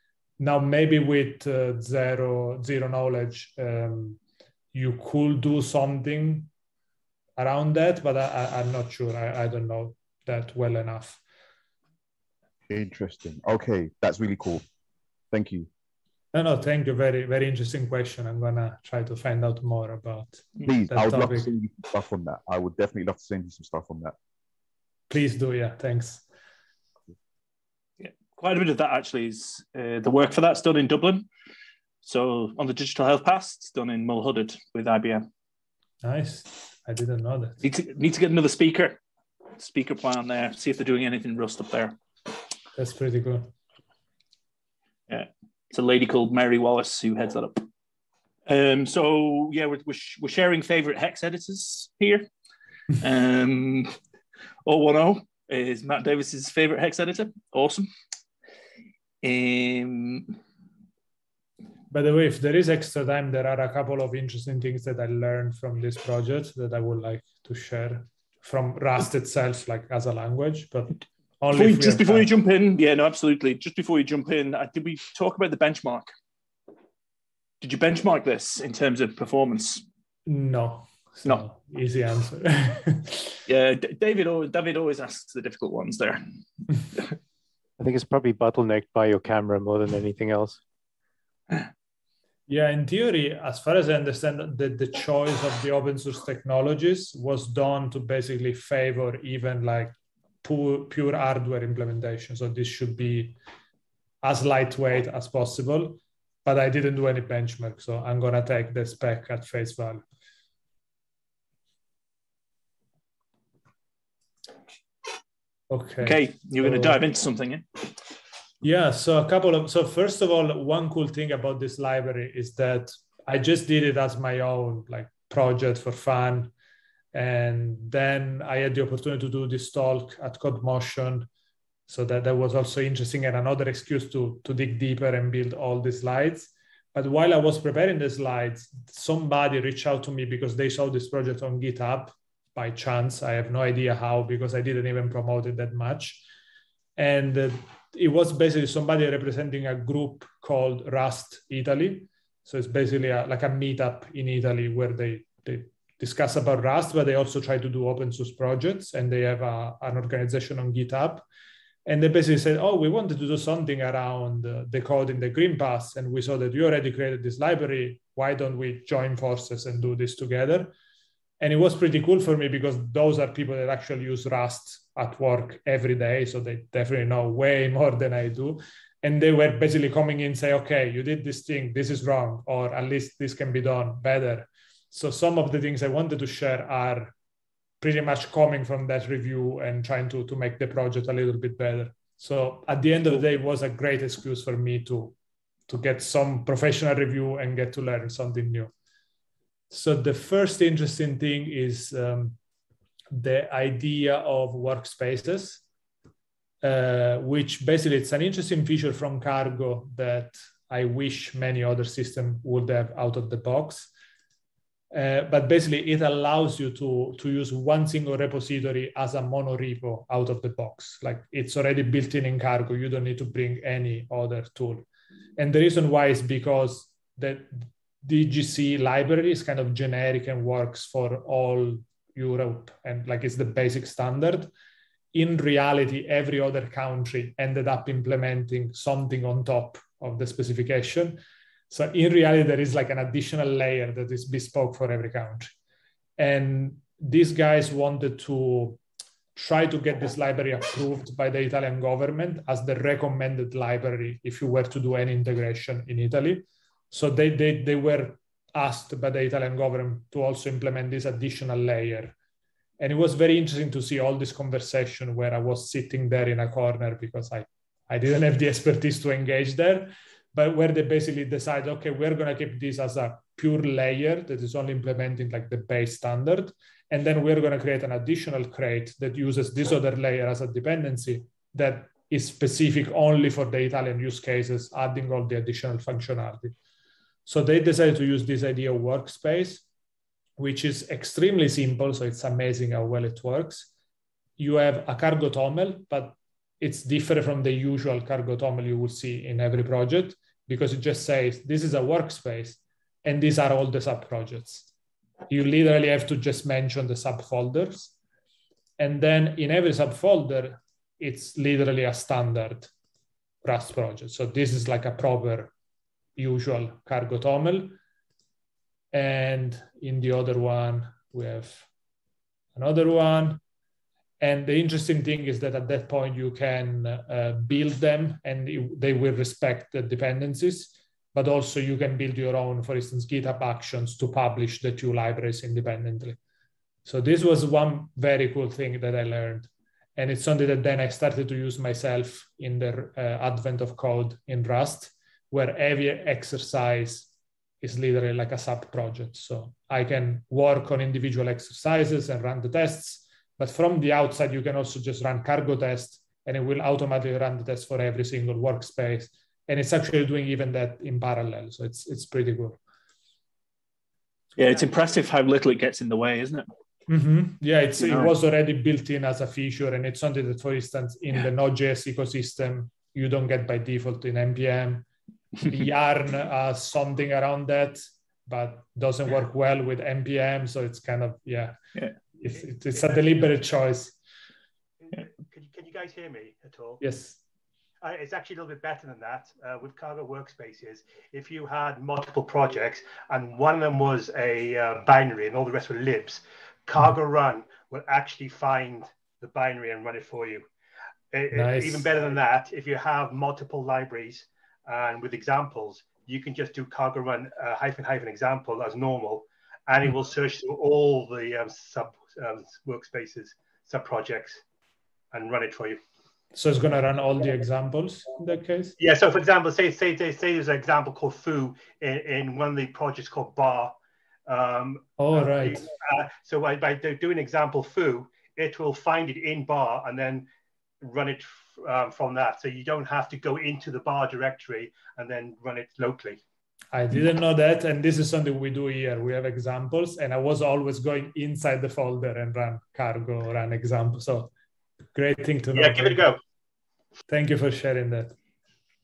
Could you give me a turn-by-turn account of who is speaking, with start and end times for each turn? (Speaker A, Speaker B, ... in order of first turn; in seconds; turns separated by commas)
Speaker A: 0.4-4.2, Speaker A: 4.7-6.5, Speaker A: 7.4-11.2, Speaker B: 12.7-14.7, Speaker B: 15.3-15.7, Speaker A: 16.3-21.5, Speaker B: 20.6-24.1, Speaker A: 25.1-26.2, Speaker C: 28.0-31.2, Speaker C: 32.0-35.2, Speaker A: 36.0-37.6, Speaker C: 37.6-39.0, Speaker C: 39.6-42.0, Speaker A: 42.8-43.5, Speaker C: 45.1-47.6, Speaker C: 48.5-52.3, Speaker C: 53.0-53.9, Speaker C: 54.6-57.9, Speaker C: 59.2-60.4, Speaker A: 61.9-72.3, Speaker C: 71.5-76.1, Speaker C: 77.6-79.8, Speaker A: 80.3-83.4, Speaker C: 83.5-86.2, Speaker D: 87.8-90.6, Speaker A: 92.5-103.4, Speaker A: 104.2-110.0, Speaker A: 115.7-117.0, Speaker C: 116.0-117.8, Speaker A: 118.6-126.5, Speaker A: 127.1-131.3, Speaker A: 131.9-146.2, Speaker A: 147.0-161.2, Speaker A: 161.8-170.7, Speaker A: 171.4-187.1, Speaker A: 187.8-195.1, Speaker A: 195.7-198.7, Speaker A: 199.7-202.4, Speaker A: 203.1-205.6, Speaker A: 206.6-213.9, Speaker A: 214.9-224.8, Speaker A: 225.4-234.5, Speaker A: 235.1-241.2, Speaker A: 241.7-245.5, Speaker A: 246.2-248.8, Speaker A: 249.3-262.1, Speaker A: 262.8-286.5, Speaker A: 287.2-289.6, Speaker A: 290.4-293.7, Speaker A: 294.4-304.7, Speaker A: 305.3-307.9, Speaker A: 308.8-312.7, Speaker A: 313.4-315.5, Speaker A: 316.1-317.8, Speaker A: 318.9-321.7, Speaker A: 322.5-323.4, Speaker A: 324.2-336.2, Speaker A: 336.8-347.1, Speaker A: 347.6-362.6, Speaker C: 364.4-366.5, Speaker A: 366.9-374.9, Speaker C: 367.8-368.1, Speaker A: 375.5-381.5, Speaker A: 382.2-383.9, Speaker E: 382.3-383.0, Speaker E: 384.8-386.8, Speaker A: 386.8-387.2, Speaker E: 387.8-400.4, Speaker E: 401.1-414.4, Speaker A: 401.3-401.9, Speaker E: 415.1-415.8, Speaker A: 416.3-418.7, Speaker E: 418.8-423.7, Speaker E: 424.3-430.3, Speaker A: 425.0-425.6, Speaker E: 430.8-436.2, Speaker A: 436.7-444.3, Speaker A: 444.9-446.1, Speaker E: 445.5-446.2, Speaker A: 447.1-448.1